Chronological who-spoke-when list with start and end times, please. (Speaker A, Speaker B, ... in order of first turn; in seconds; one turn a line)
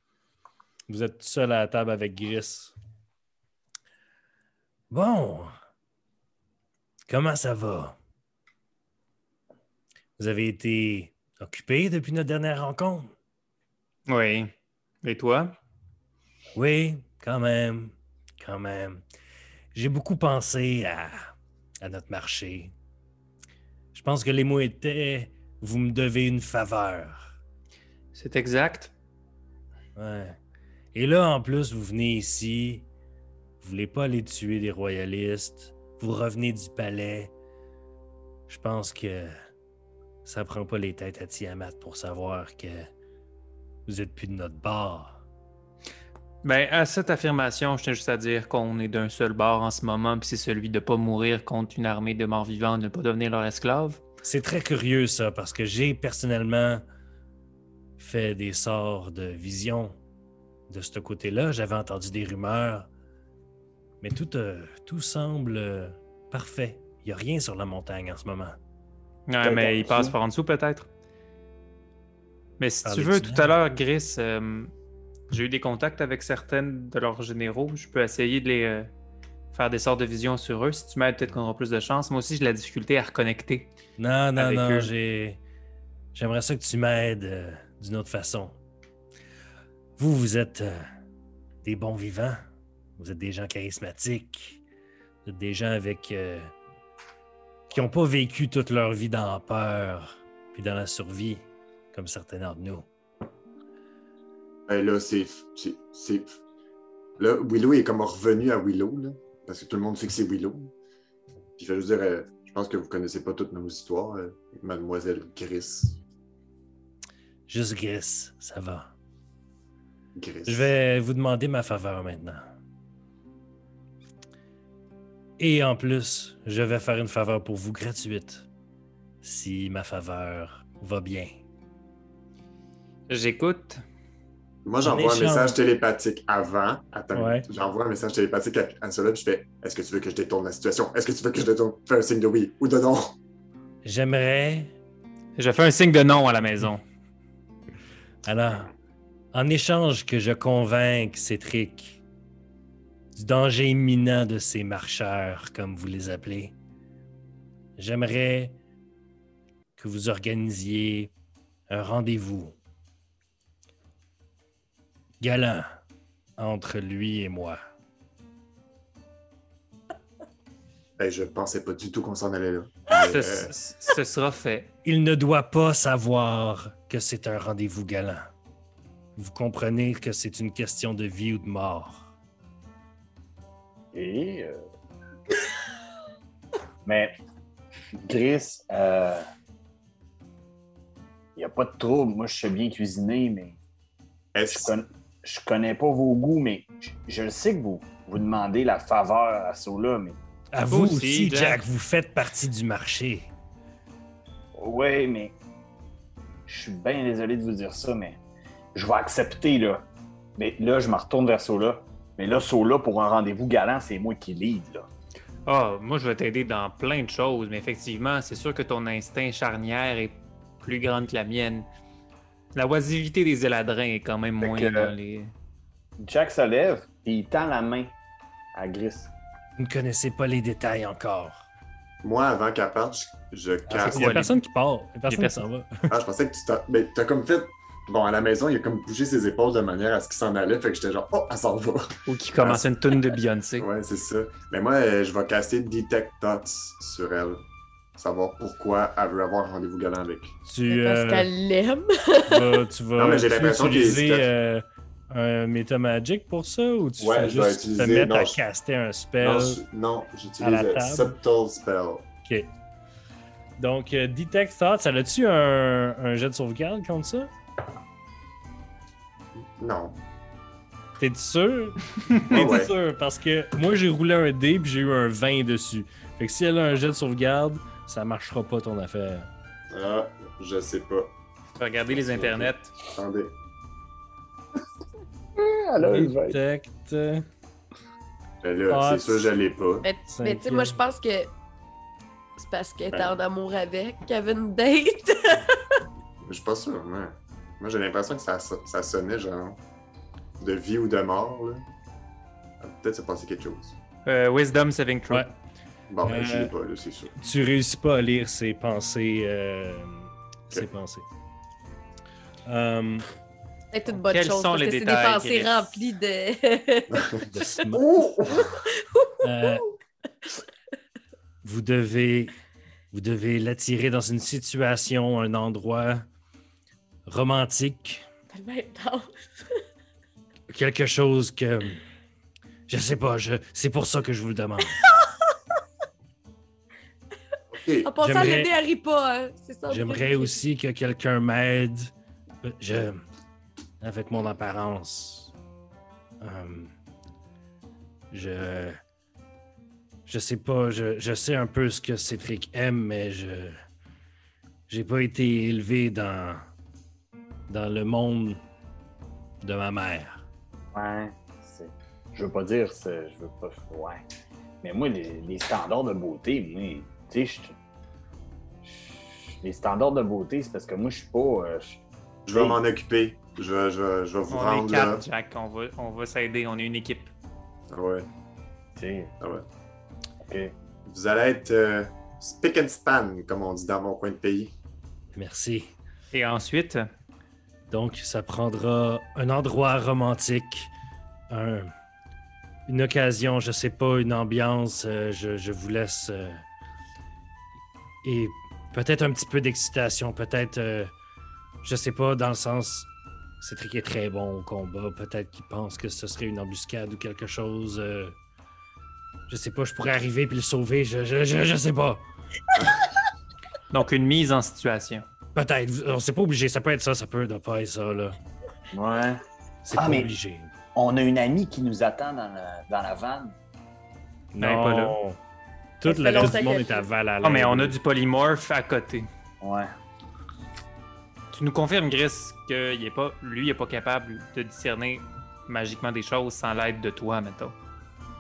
Speaker A: 0.9-2.8
Speaker A: 4.9-5.5
Speaker A: 7.1-8.0
Speaker A: 10.2-13.1
Speaker B: 14.1-14.5
Speaker B: 15.0-15.6
Speaker A: 16.6-19.0
Speaker A: 19.7-22.7
Speaker A: 23.9-27.4
Speaker B: 28.1-28.9
Speaker A: 30.0-30.4
Speaker A: 30.9-32.9
Speaker A: 33.6-37.3
Speaker A: 38.5-39.4
Speaker A: 40.2-42.9
Speaker A: 43.9-45.2
Speaker B: 46.4-54.0
Speaker A: 54.2-56.8
Speaker A: 58.0-60.0
Speaker A: 60.7-62.9
Speaker A: 64.0-68.6
Speaker B: 69.3-70.9
Speaker C: 69.4-70.2
Speaker B: 72.6-74.7
Speaker A: 72.8-73.5
Speaker B: 75.3-78.9
Speaker B: 79.5-83.7
Speaker A: 84.0-85.4
Speaker B: 84.4-84.9
Speaker A: 86.1-88.6
Speaker A: 90.0-90.9
Speaker A: 91.6-92.4
Speaker A: 93.0-94.6
Speaker A: 95.2-96.5
Speaker A: 97.7-102.9
Speaker D: 104.7-106.4
Speaker D: 107.2-110.7
Speaker D: 111.6-116.0
Speaker A: 117.5-118.9
Speaker D: 120.2-120.7
Speaker A: 120.5-122.5
Speaker A: 125.4-128.5
Speaker A: 129.2-131.3
Speaker B: 133.1-133.8
Speaker D: 134.7-143.2
Speaker A: 134.8-135.6
Speaker A: 137.1-137.5
Speaker A: 143.8-144.7
Speaker B: 145.4-146.8
Speaker A: 148.3-148.7
Speaker A: 149.3-152.0
Speaker A: 153.2-156.6
Speaker A: 157.8-158.6
Speaker A: 159.8-161.1
Speaker A: 161.7-162.6
Speaker A: 165.2-165.8
Speaker A: 166.4-167.6
Speaker D: 171.0-173.5
Speaker B: 172.9-174.7
Speaker A: 174.8-178.3
Speaker A: 179.2-182.1
Speaker C: 183.9-184.6
Speaker C: 186.8-187.1
Speaker C: 188.1-189.2
Speaker C: 191.4-193.6
Speaker D: 194.3-194.7
Speaker C: 194.5-200.2
Speaker A: 200.5-203.3
Speaker B: 200.7-201.6
Speaker C: 204.6-205.4
Speaker C: 206.5-208.2
Speaker C: 208.8-209.8
Speaker C: 210.4-214.9
Speaker B: 215.5-221.7
Speaker B: 222.6-225.3
Speaker C: 224.4-224.9
Speaker C: 226.0-227.9
Speaker C: 228.5-229.1
Speaker A: 229.6-231.5
Speaker D: 232.0-234.3
Speaker A: 233.7-235.9
Speaker B: 233.8-234.3
Speaker B: 235.1-235.4
Speaker D: 235.9-242.7
Speaker B: 242.1-243.7
Speaker D: 243.6-247.4
Speaker D: 248.0-250.4
Speaker A: 250.5-251.3
Speaker E: 250.7-252.6
Speaker A: 252.3-259.6
Speaker D: 252.9-254.3
Speaker D: 257.0-258.4
Speaker D: 259.2-262.1
Speaker A: 260.4-261.2
Speaker A: 263.6-267.3
Speaker D: 269.6-270.0
Speaker A: 271.0-279.3
Speaker D: 272.3-272.7
Speaker D: 279.7-281.1
Speaker B: 281.6-282.7
Speaker D: 281.9-283.3
Speaker C: 285.4-286.4
Speaker A: 285.8-287.2
Speaker D: 288.4-289.9
Speaker A: 288.7-289.3
Speaker E: 289.8-291.3
Speaker A: 290.1-290.8
Speaker E: 292.4-295.6
Speaker D: 292.9-293.2
Speaker D: 296.2-299.6
Speaker D: 300.4-301.6
Speaker D: 302.6-303.8
Speaker B: 304.1-305.3
Speaker D: 305.9-307.1
Speaker A: 306.1-306.5
Speaker A: 307.2-311.1
Speaker A: 312.4-313.1
Speaker E: 313.7-317.5
Speaker B: 314.0-315.9
Speaker D: 316.9-318.6
Speaker A: 317.2-317.9
Speaker E: 318.5-319.7
Speaker A: 319.2-319.6
Speaker A: 321.4-322.3
Speaker A: 322.9-326.1
Speaker A: 327.1-328.1
Speaker E: 328.3-329.1
Speaker A: 330.5-331.8
Speaker A: 332.7-334.8
Speaker D: 337.5-337.9
Speaker E: 337.8-340.4
Speaker A: 338.0-338.5
Speaker A: 339.7-343.0
Speaker A: 343.8-345.3
Speaker A: 346.2-346.7
Speaker A: 348.1-348.8
Speaker A: 350.1-353.6
Speaker A: 354.7-356.5
Speaker A: 357.5-358.4
Speaker A: 359.4-360.2
Speaker C: 360.7-364.0
Speaker C: 364.6-367.5
Speaker C: 368.6-371.8
Speaker D: 372.3-375.0
Speaker C: 372.3-372.6
Speaker B: 374.3-377.1
Speaker D: 377.7-378.1
Speaker C: 378.8-379.1
Speaker D: 379.2-379.5
Speaker C: 380.2-380.5
Speaker D: 380.9-384.6
Speaker A: 385.1-385.7
Speaker B: 386.1-386.9
Speaker A: 387.7-390.7
Speaker A: 391.3-391.7
Speaker A: 392.7-396.4
Speaker A: 398.0-400.9
Speaker A: 401.6-402.9
Speaker A: 403.4-408.2
Speaker A: 409.3-412.1
Speaker B: 413.7-415.1
Speaker A: 415.4-418.2
Speaker C: 418.7-419.2
Speaker A: 419.6-420.5
Speaker C: 419.7-420.1
Speaker C: 420.7-423.4
Speaker A: 424.3-425.2
Speaker B: 424.4-425.0
Speaker A: 425.8-427.8
Speaker E: 425.9-426.8
Speaker B: 427.2-429.1
Speaker C: 429.4-429.7
Speaker B: 431.3-437.6